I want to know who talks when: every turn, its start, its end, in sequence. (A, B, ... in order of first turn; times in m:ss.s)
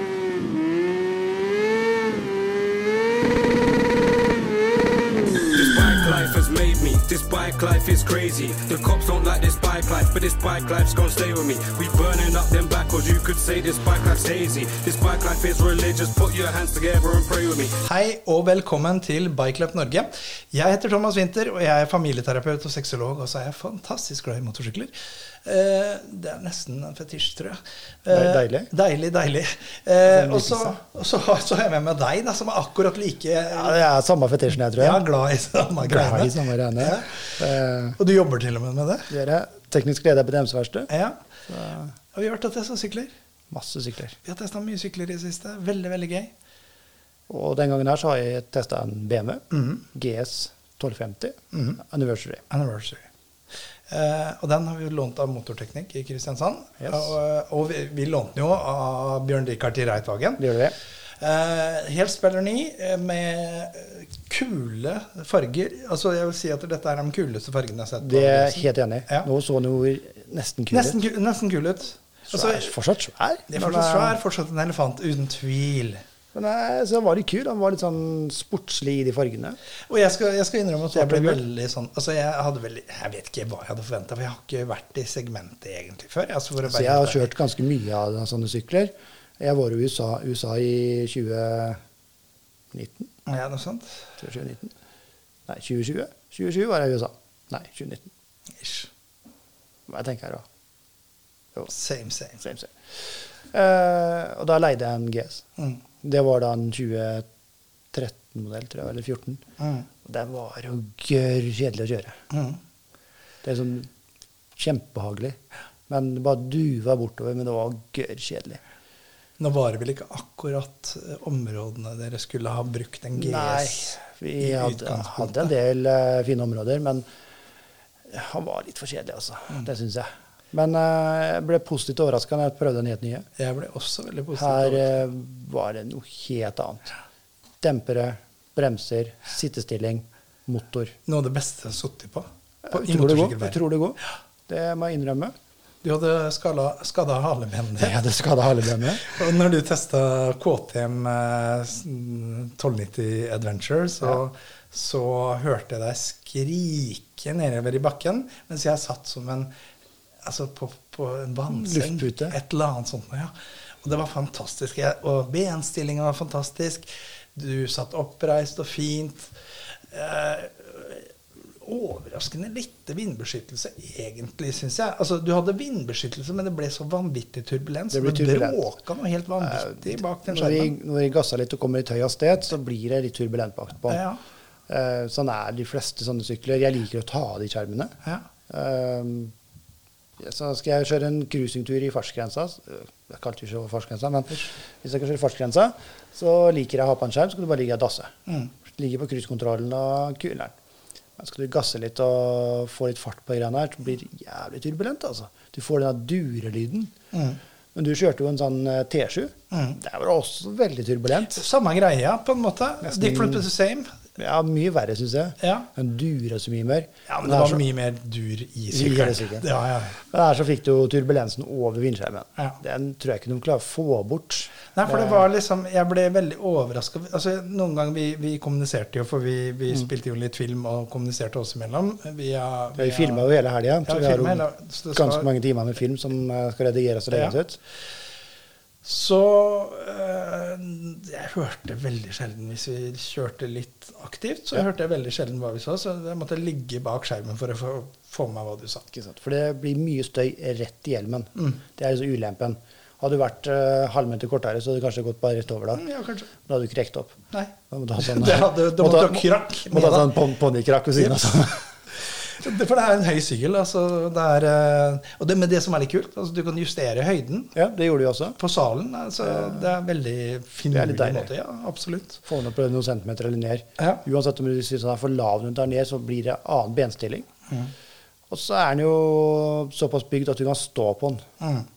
0:05.4-0:17.8 A
0:17.8-0:24.9 B
0:25.4-0:33.8 B
0:28.1-0:28.7 C
0:30.0-0:30.8 C
0:33.5-0:35.0 C
0:34.8-0:37.4 B
0:35.8-0:38.0 C
0:38.0-0:39.1 B
0:39.1-0:40.9 C
0:40.9-0:41.2 B
0:41.5-0:41.9 C
0:42.1-0:43.1 B
0:43.5-0:44.2 C
0:44.2-0:46.3 B
0:47.3-0:52.4 C
0:49.5-0:49.8 B
0:51.5-0:51.8 B
0:52.5-0:53.1 B
0:53.9-1:00.4 B
0:56.8-0:57.1 C
1:00.4-1:00.8 C
1:01.2-1:09.3 B
1:08.0-1:11.0 C
1:10.7-1:12.7 B
1:12.3-1:14.2 C
1:13.5-1:16.0 B
1:16.3-1:19.6 C
1:19.9-1:27.3 B
1:20.9-1:21.4 C
1:26.6-1:31.8 C
1:32.7-1:33.1 C
1:33.3-1:34.1 B
1:34.2-1:34.7 C
1:35.5-1:38.1 C
1:38.6-1:38.9 B
1:39.9-1:40.4 C
1:41.7-1:42.4 B
1:42.4-1:42.7 C
1:43.5-1:45.4 C
1:46.0-1:47.2 C
1:47.9-1:49.4 C
1:49.6-1:49.9 B
1:50.0-1:52.2 C
1:52.3-1:52.6 B
1:53.4-1:53.9 C
1:54.6-1:58.6 C
1:59.4-2:05.5 B
2:03.2-2:07.1 C
2:08.1-2:13.3 C
2:13.4-2:15.0 B
2:14.4-2:17.0 C
2:17.6-2:20.9 C
2:21.1-2:23.6 B
2:22.6-2:25.3 C
2:25.8-2:28.0 B
2:27.8-2:29.2 C
2:29.0-2:39.5 B
2:40.2-2:43.3 B
2:41.5-2:42.4 C
2:43.8-2:49.3 B
2:49.9-3:00.7 B
2:57.9-2:58.6 C
2:59.4-3:04.0 C
3:03.9-3:04.2 B
3:04.7-3:07.9 C
3:08.5-3:09.3 C
3:10.2-3:20.6 C
3:18.3-3:18.5 B
3:21.2-3:26.9 C
3:27.1-3:27.4 B
3:27.7-3:31.4 C
3:29.5-3:29.8 B
3:31.3-3:34.0 B
3:32.8-3:33.5 C
3:34.2-3:37.6 C
3:35.4-3:35.7 B
3:37.1-3:40.0 B
3:38.7-3:39.5 C
3:40.0-3:45.2 C
3:44.7-3:53.2 B
3:52.8-3:57.6 C
3:53.8-3:55.3 B
3:57.1-3:57.4 B
3:58.8-4:08.8 B
4:08.9-4:15.8 C
4:15.7-4:16.3 B
4:16.4-4:17.2 C
4:17.3-4:20.2 B
4:17.7-4:21.7 C
4:20.9-4:21.4 B
4:22.0-4:27.5 B
4:27.6-4:28.4 C
4:28.4-4:32.2 B
4:29.2-4:29.7 C
4:30.7-4:31.3 C
4:32.3-4:37.3 C
4:33.8-4:34.0 B
4:38.3-4:41.2 C
4:41.4-4:41.7 B